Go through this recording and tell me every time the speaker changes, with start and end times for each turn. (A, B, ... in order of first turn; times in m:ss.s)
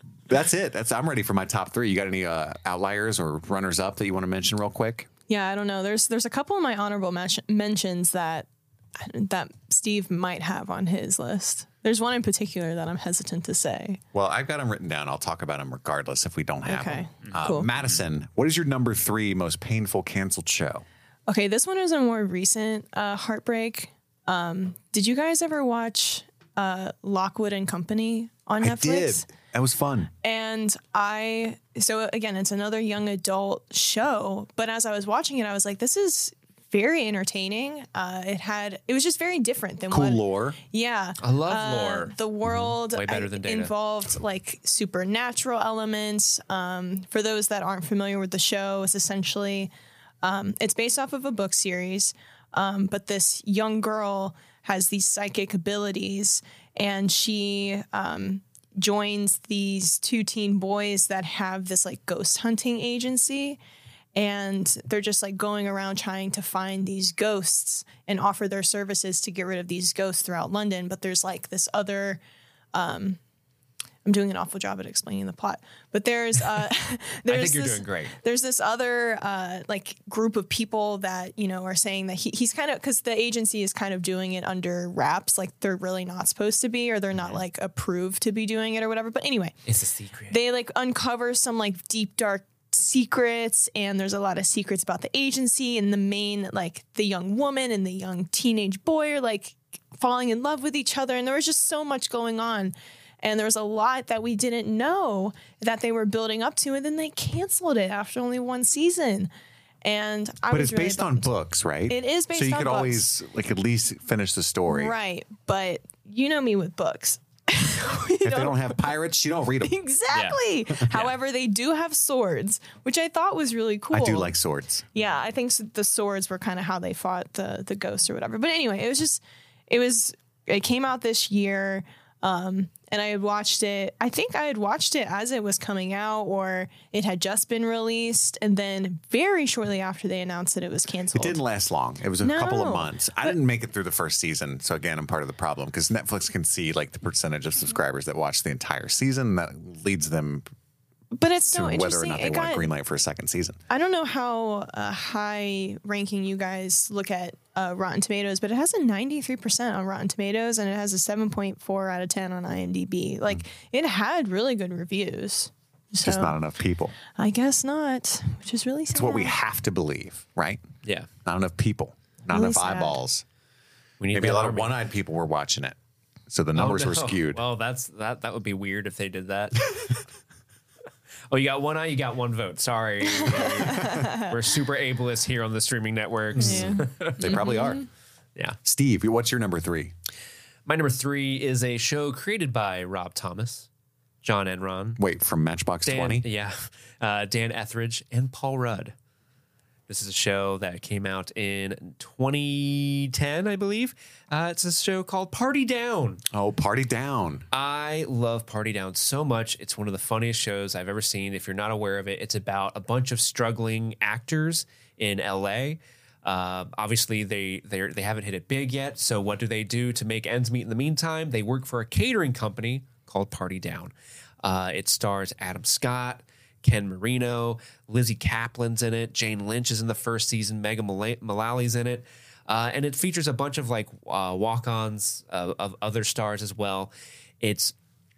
0:00.3-0:05.1 A
0:05.3-0:14.0 B
0:14.1-0:20.8 A
0:16.6-0:17.7 B
0:21.3-0:29.3 B
0:28.6-0:30.1 A
0:30.2-0:49.7 B
0:39.9-0:40.6 A
0:41.2-0:42.1 C
0:42.8-0:43.7 C
0:50.2-1:03.6 B
1:04.1-1:12.2 B
1:12.7-1:13.2 B
1:14.0-1:29.5 B
1:17.3-1:18.1 C
1:29.6-1:30.4 C
1:30.3-1:49.3 B
1:49.8-1:51.3 B
1:50.5-1:54.9 A
1:51.9-1:53.0 B
1:54.7-1:58.8 B
1:58.2-1:59.7 A
1:59.6-2:04.3 B
2:00.1-2:00.4 C
2:03.9-2:04.9 A
2:04.9-2:21.4 B
2:21.1-2:30.4 A
2:22.2-2:23.3 B
2:31.1-2:32.7 B
2:31.5-2:33.6 A
2:33.7-2:46.4 B
2:46.0-2:46.9 A
2:47.1-2:49.3 B
2:48.9-2:50.6 A
2:51.2-2:53.2 A
2:52.3-2:53.0 B
2:54.0-2:54.7 C
2:54.1-2:55.8 A
2:56.3-2:57.4 A
2:56.5-3:00.0 C
3:01.3-3:07.4 C
3:03.2-3:04.3 B
3:06.4-3:07.8 A
3:06.4-3:07.8 B
3:08.6-3:09.9 A
3:10.6-3:13.7 C
3:14.2-3:15.0 C
3:15.0-3:16.2 A
3:15.8-3:18.9 C
3:19.9-3:26.2 C
3:26.3-3:27.4 A
3:27.5-3:57.7 C